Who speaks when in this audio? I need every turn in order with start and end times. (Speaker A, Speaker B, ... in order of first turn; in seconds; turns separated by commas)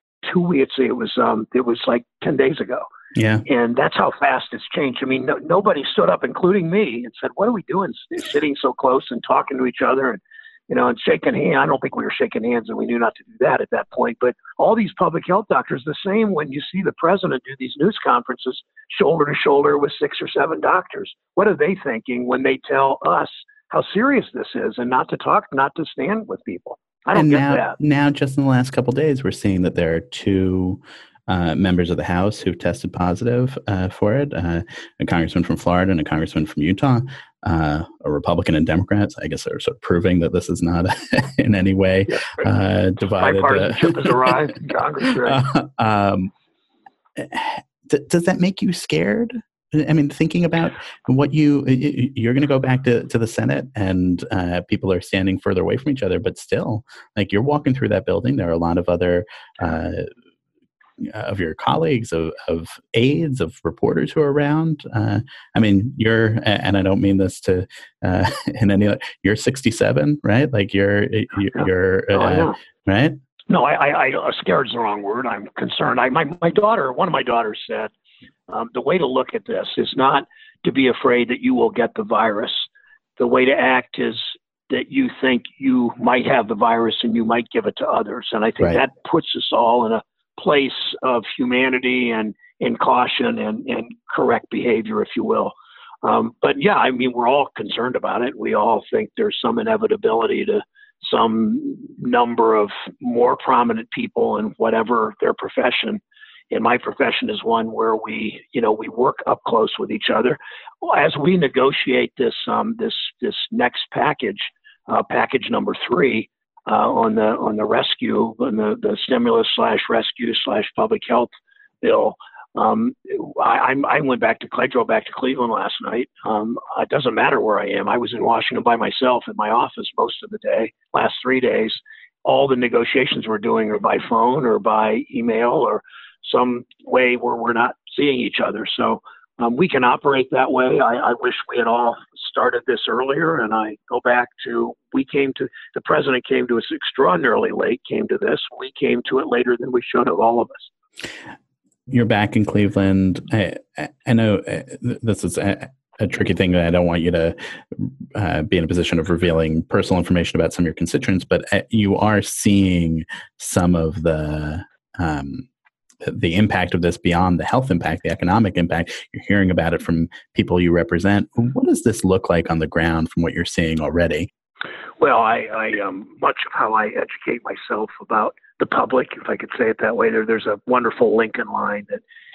Speaker A: 0.2-2.9, Speaker B: 3.1-3.4, Speaker A: 3.5-27.8, Speaker B: 27.1-44.3, Speaker A: 42.1-42.5, Speaker A: 43.2-45.4, Speaker B: 45.2-46.3, Speaker B: 47.1-60.1, Speaker B: 61.0-73.2, Speaker A: 71.5-72.5, Speaker A: 73.5-77.9, Speaker A: 78.5-150.7, Speaker B: 151.9-165.5, Speaker B: 166.0-174.3, Speaker A: 175.0-182.0